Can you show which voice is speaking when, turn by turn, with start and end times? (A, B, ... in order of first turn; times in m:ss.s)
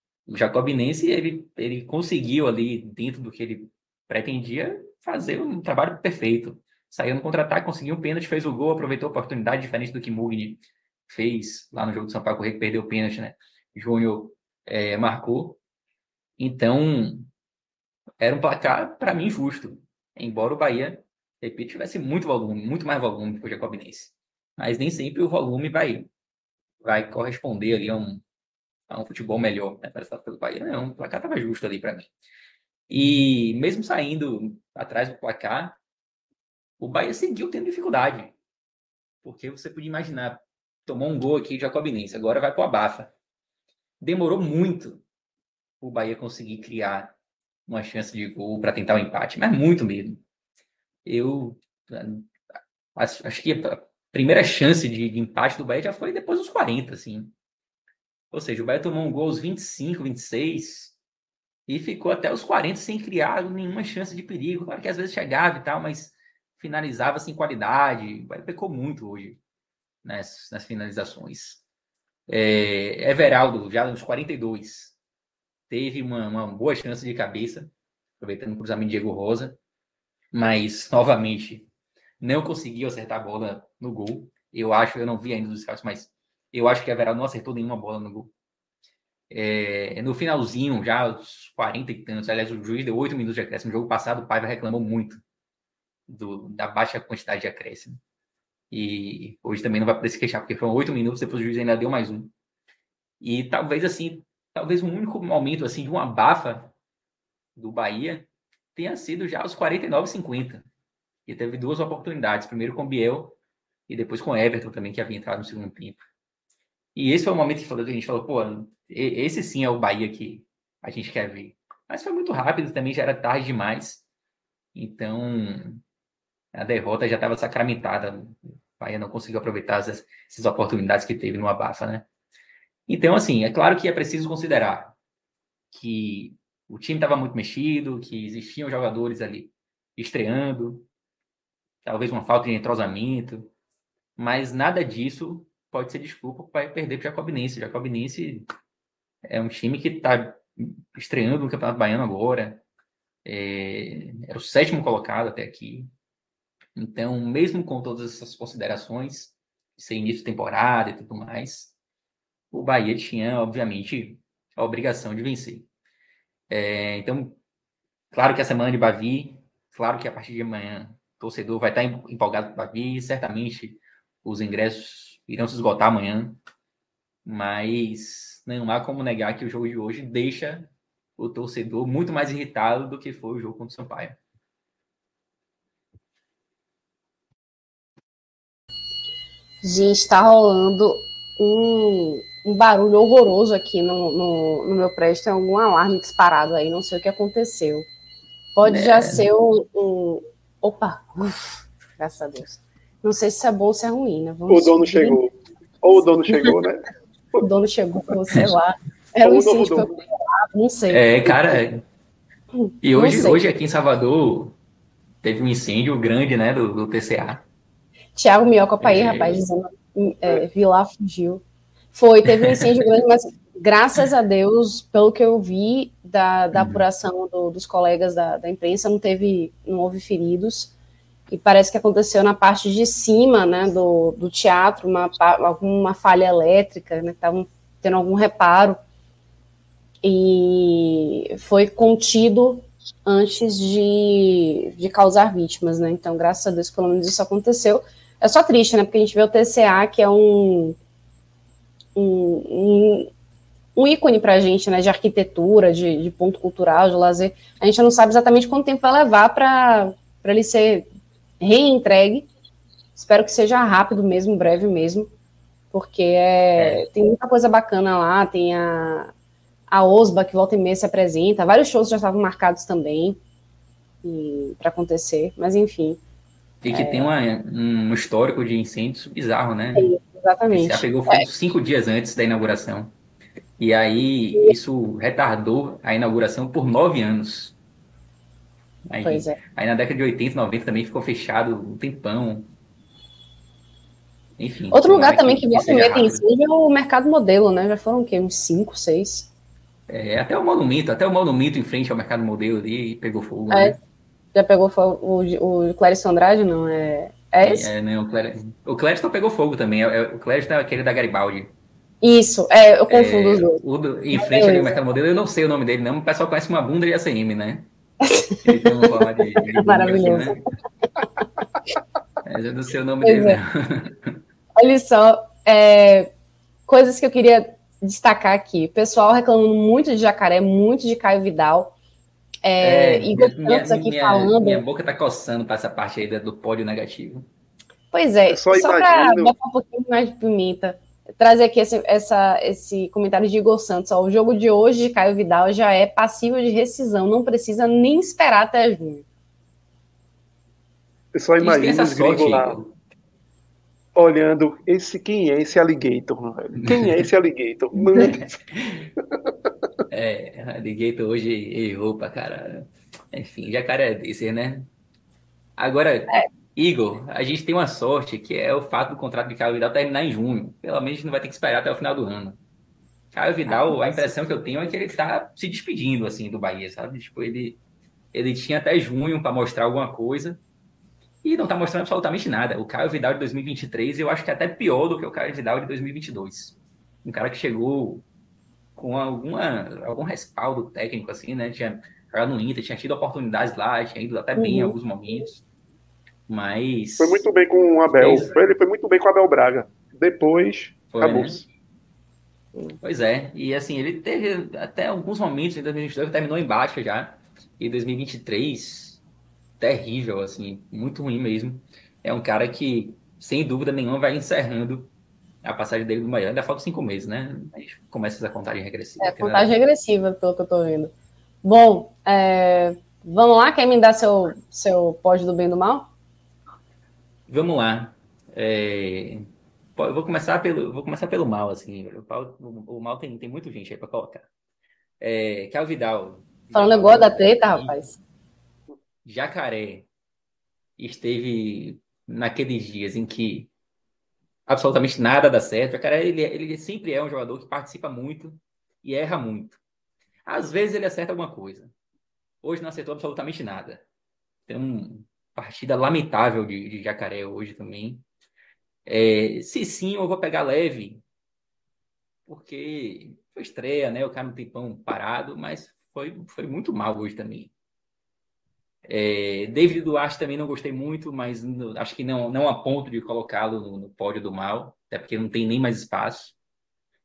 0:00.3-0:15.6 A
0:16.4-0:17.3 A
0:18.2-0:26.1 A
0:26.8-0:28.2 A
0:28.9-0:32.1 A
0:32.9-0:35.8 A
0:36.8-0:38.3 A
0:39.2-0:43.1 A
0:44.0-0:45.0 A
0:45.8-0:47.1 A
0:47.7-0:50.2 A
0:51.0-0:52.3 A
0:53.0-0:57.3 A
0:58.3-1:01.0 A
1:01.7-1:09.4 A
1:10.0-1:11.6 A
1:12.3-1:15.0 A
1:15.7-1:19.6 A
1:20.3-1:21.7 A
1:22.2-1:28.3 A
1:29.3-1:35.2 A
1:36.1-1:38.0 A
1:38.7-1:42.3 A
1:43.2-1:46.7 A
1:47.6-1:50.6 A
1:51.3-1:53.4 A
1:53.9-1:56.0 A
1:57.0-2:04.0 A
2:04.7-2:05.8 A
2:06.5-2:12.1 A
2:12.9-2:15.0 A
2:15.7-2:20.9 A
2:21.8-2:23.5 A
2:24.2-2:28.5 A
2:29.3-2:32.6 A
2:33.2-2:35.9 A
2:36.8-2:41.7 A
2:42.5-2:45.7 A
2:46.5-2:47.4 A
2:48.1-2:56.4 A
2:57.2-3:04.2 A
3:09.6-3:17.9 B
3:18.6-3:25.2 B
3:18.6-3:19.2 A
3:24.5-3:26.8 C
3:27.4-3:31.3 B
3:29.2-3:30.0 C
3:30.9-3:31.8 A
3:32.6-3:33.4 B
3:32.8-3:34.6 A
3:35.2-3:37.4 A
3:38.2-3:41.4 B
3:38.8-3:39.4 A
3:41.9-3:50.7 B
3:46.5-3:46.8 A
3:51.3-3:58.8 B
4:00.0-4:10.8 B
4:12.0-4:13.1 B
4:13.8-4:20.9 B
4:21.4-4:22.3 B
4:23.0-4:25.1 B
4:25.7-4:29.1 B
4:26.6-4:26.9 A
4:29.7-4:33.2 B
4:34.0-4:36.0 B
4:36.6-4:40.0 A
4:36.7-4:37.1 B
4:39.8-4:41.3 B
4:40.5-4:42.9 A
4:43.6-4:47.6 A
4:48.9-4:52.5 A
4:49.0-4:49.4 B
4:54.4-4:56.2 A
4:54.7-4:59.3 B
4:59.9-5:03.8 A
5:03.5-5:03.8 B
5:04.4-5:07.7 B
5:07.4-5:11.5 A
5:12.0-5:13.6 B
5:12.9-5:17.7 A
5:14.1-5:14.8 B
5:18.0-5:20.4 B
5:18.4-5:20.4 A
5:22.2-5:24.2 A
5:23.0-5:23.4 B
5:24.6-5:26.1 B
5:26.7-5:31.7 B
5:32.4-5:34.6 B
5:32.6-5:37.3 A
5:37.9-5:49.0 B
5:38.3-5:39.3 C
5:51.1-5:52.6 C
5:51.4-5:52.8 A
5:54.0-5:58.4 C
5:56.6-5:57.1 A
5:57.9-5:58.9 A
5:59.9-6:04.7 A
6:05.6-6:12.4 A
6:13.1-6:17.6 A
6:13.5-6:14.1 B
6:18.1-6:20.4 A
6:21.2-6:28.0 A
6:28.8-6:35.4 A
6:34.4-6:34.8 B
6:36.3-6:37.2 A
6:37.0-6:41.4 C
6:37.9-6:38.4 A
6:40.9-6:41.4 A
6:42.8-6:49.0 A
6:49.6-6:54.9 A
6:55.4-6:59.6 A
6:59.0-7:00.9 B
7:01.4-7:05.9 B
7:07.3-7:14.3 A
7:15.0-7:17.8 A
7:16.5-7:18.0 B
7:19.0-7:19.9 A
7:20.8-7:23.5 A
7:24.5-7:29.6 A
7:30.3-7:31.7 A
7:32.4-7:33.8 A
7:34.5-7:38.0 A
7:38.9-7:41.0 A
7:42.3-7:47.5 A
7:48.9-7:56.4 A